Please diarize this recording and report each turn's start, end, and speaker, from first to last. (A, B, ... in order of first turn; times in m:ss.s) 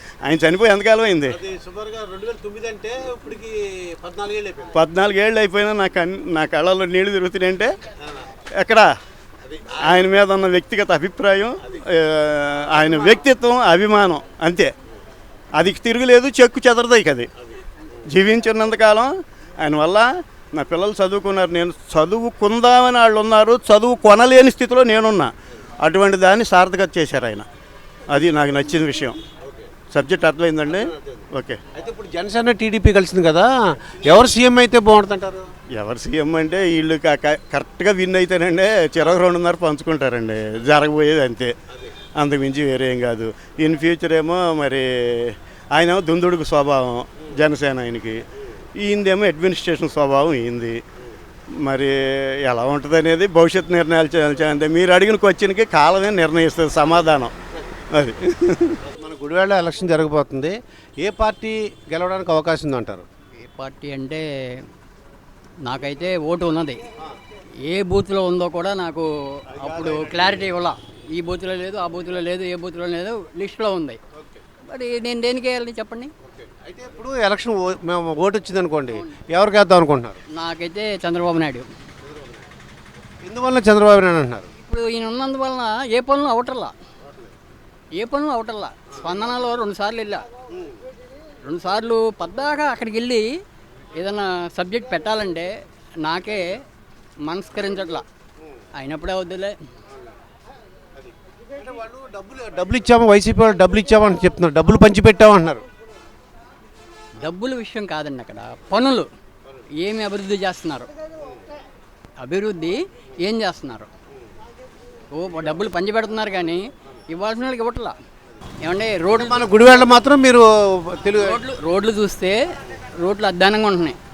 0:00.2-0:01.4 A
0:01.3-0:04.7 B
0:04.8-0:07.7 A
0:08.6-0:08.8 A
0:09.5-0:10.0 B
0:09.8-0:14.7 A
0:12.8-0:13.2 B
0:15.5-0:17.3 A
0:18.1-0:27.4 A
0:28.1-0:29.2 A
0:29.9-0:30.8 A
0:30.7-0:31.1 B
0:31.7-0:33.5 B
0:34.0-0:35.5 B
0:35.8-0:41.5 A
0:42.2-0:48.2 A
0:48.8-0:50.8 A
0:51.6-0:51.9 A
0:52.4-0:57.3 A
0:57.9-0:58.8 A
0:58.9-1:03.0 B
1:03.4-1:04.6 C
1:05.6-1:06.8 C
1:07.6-1:14.0 C
1:09.6-1:10.5 B
1:14.7-1:16.1 C
1:16.3-1:20.2 B
1:20.3-1:21.7 C
1:22.1-1:22.4 B
1:23.2-1:24.5 B
1:24.7-1:26.7 C
1:27.9-1:30.2 C
1:31.4-1:33.3 C
1:34.0-1:36.5 C
1:37.2-1:38.0 C
1:38.8-1:39.6 C
1:41.6-1:45.6 B
1:47.2-1:49.1 C
1:49.8-1:50.9 C
1:52.2-1:53.9 C
1:55.1-1:58.0 C
1:58.6-1:59.5 C
1:59.1-2:01.4 B
2:01.2-2:02.4 C
2:03.0-2:04.0 C